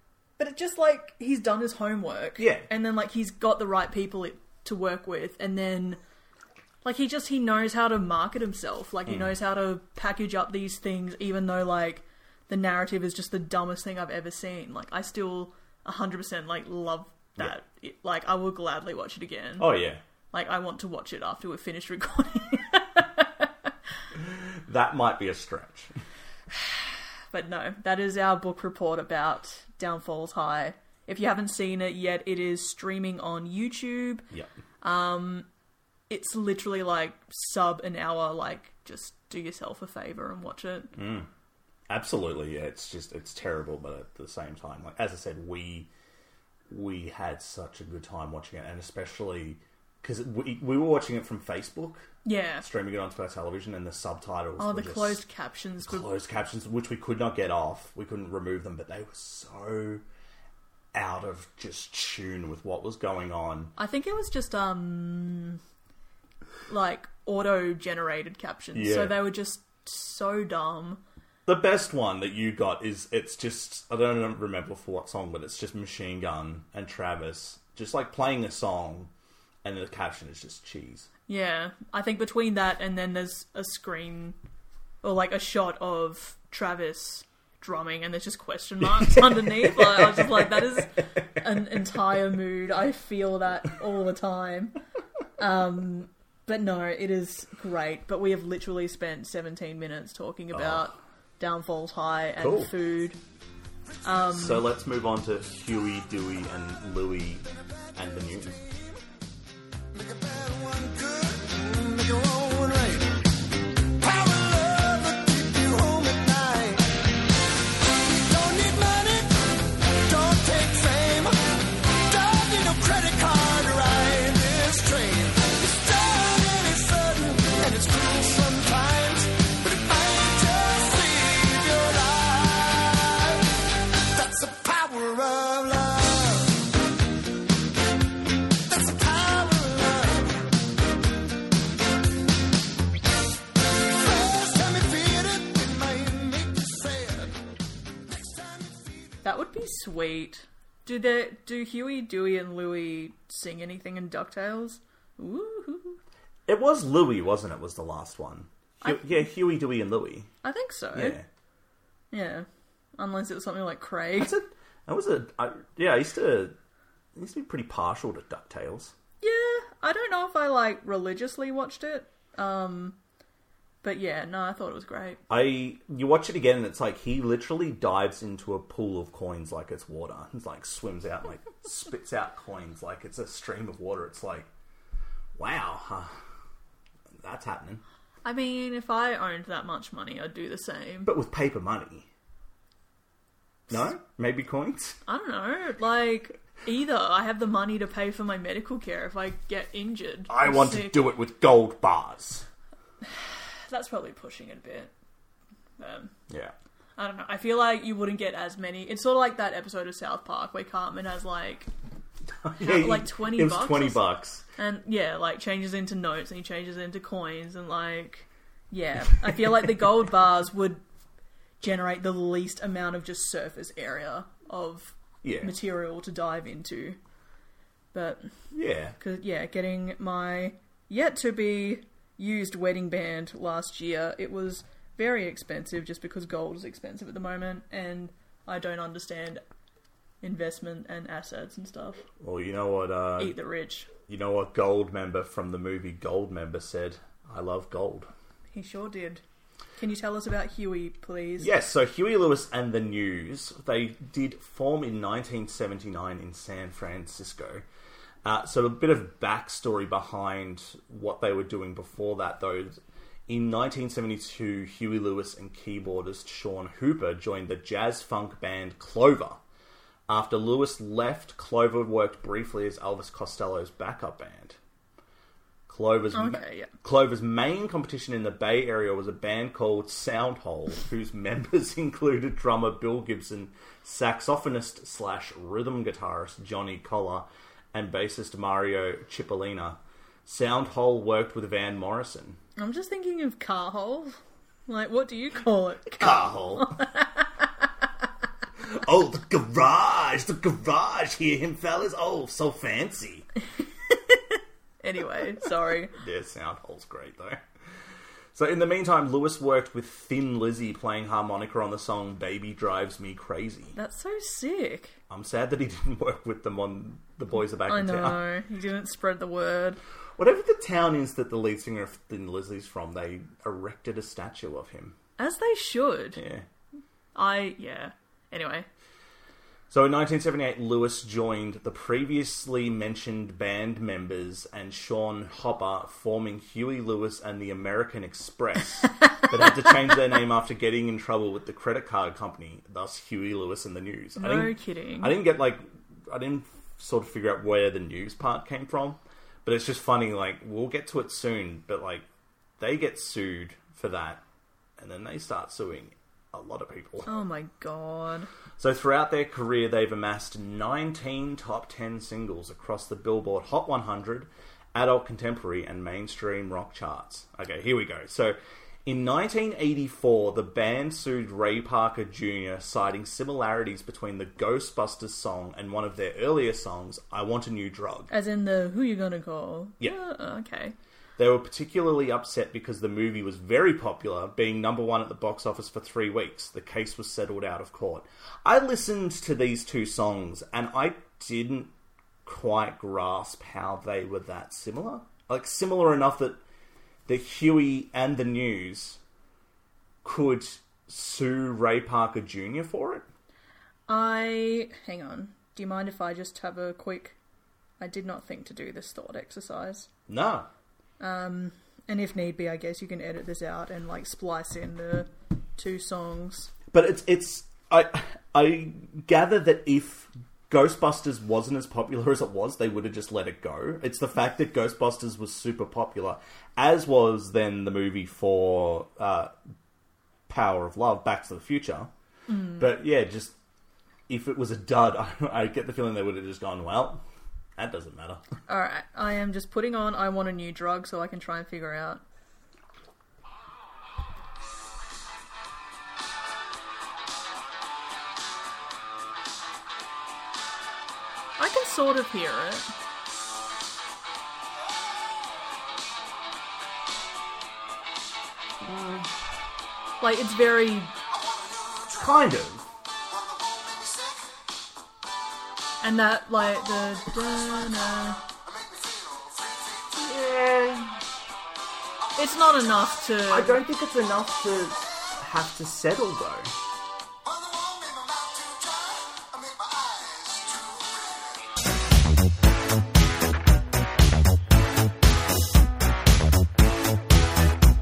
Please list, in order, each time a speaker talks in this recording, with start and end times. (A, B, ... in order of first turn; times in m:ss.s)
0:00.4-0:06.0 A
0:02.4-0:02.7 B
0:06.8-0:19.7 A
0:09.1-0:09.3 B
0:19.6-0:20.0 B
0:20.3-0:23.7 A
0:24.2-0:26.0 B
0:26.5-0:34.3 A
0:34.8-0:35.5 A
0:36.1-0:41.0 A
0:41.0-0:41.3 B
0:41.9-0:45.9 B
0:46.7-0:52.1 B
0:52.2-0:52.6 A
0:52.6-0:55.2 B
0:54.6-0:56.1 A
0:55.8-1:00.0 B
1:00.9-1:03.7 B
1:03.8-1:05.6 A
1:06.7-1:11.0 A
1:08.7-1:09.2 B
1:11.5-1:19.1 B
1:19.6-1:21.1 B
1:21.3-1:24.4 A
1:25.0-1:34.8 A
1:29.0-1:30.8 B
1:35.4-1:43.2 A
1:40.5-1:40.9 B
1:42.4-1:42.7 B
1:44.0-1:44.7 A
1:44.3-1:48.6 B
1:49.9-1:53.3 C
1:54.0-1:56.9 C
1:57.8-2:16.7 C
2:18.7-2:20.5 C
2:23.8-2:27.4 C
2:28.1-2:29.2 C
2:29.2-2:36.0 A
2:36.5-2:40.3 B
2:38.8-2:39.3 A
2:40.4-2:41.2 A
2:40.9-2:41.3 B
2:42.1-2:42.5 A
2:43.0-2:44.3 A
2:44.2-2:46.6 B
2:47.2-2:49.0 B
2:49.2-2:53.0 A
2:53.8-2:55.2 A
2:55.3-3:04.5 B
3:05.4-3:06.1 B
3:07.2-3:07.8 B
3:08.2-3:11.1 A
3:11.0-3:12.1 B
3:13.7-3:15.0 B
3:15.1-3:21.1 A
3:20.3-3:22.5 B
3:23.0-3:24.9 A
3:25.8-3:26.2 A
3:26.3-3:26.5 B
3:27.0-3:31.7 A
3:32.4-3:34.4 B
3:32.6-3:34.0 A
3:34.6-3:40.8 A
3:41.6-3:47.0 A
3:45.2-3:45.5 B
3:47.9-3:48.3 A
3:48.5-3:49.0 B
3:49.0-3:59.4 A
4:00.2-4:02.1 A
4:02.2-4:03.4 B
4:03.2-4:03.9 A
4:04.1-4:08.1 B
4:08.5-4:09.2 A
4:09.8-4:11.5 A
4:11.4-4:17.6 B
4:18.2-4:22.8 B
4:23.3-4:29.4 B
4:30.1-4:34.6 B
4:35.7-4:52.4 B
4:36.1-4:36.7 A
4:52.6-4:57.5 A
4:56.0-4:56.8 B
4:58.6-5:03.3 B
5:03.9-5:06.0 A
5:05.9-5:07.4 B
5:08.3-5:13.8 B
5:13.8-5:15.0 A
5:15.1-5:18.2 B
5:17.7-5:19.8 A
5:20.2-5:25.0 B
5:25.2-5:26.2 A
5:26.2-5:26.5 B
5:27.2-5:28.7 A
5:29.7-5:52.0 B
5:44.2-5:45.2 A
5:52.6-5:54.2 B
5:54.8-5:57.1 B
5:57.1-5:58.3 A
5:58.6-6:18.1 B
6:18.1-6:20.8 A
6:21.2-6:31.7 B
6:32.2-6:36.4 B
6:37.1-6:39.0 B
6:40.0-6:43.1 B
6:43.9-6:47.2 A
6:47.8-6:49.9 A
6:50.1-6:50.5 B
6:51.0-6:56.5 A
6:56.7-7:09.3 B
7:10.3-7:11.9 B
7:12.3-7:12.8 A
7:12.6-7:13.4 B
7:14.1-7:17.0 B
7:17.6-7:18.2 B
7:18.5-7:22.0 A
7:31.4-7:32.7 A
7:38.6-7:39.1 B
7:40.0-7:40.9 A
7:41.1-7:42.0 C
7:41.9-7:42.7 B
7:43.1-7:44.3 C
7:45.8-7:48.2 A
7:48.4-7:50.0 C
7:49.9-7:51.0 B
7:52.2-7:53.6 A
7:53.3-7:56.5 B
7:57.2-8:01.5 C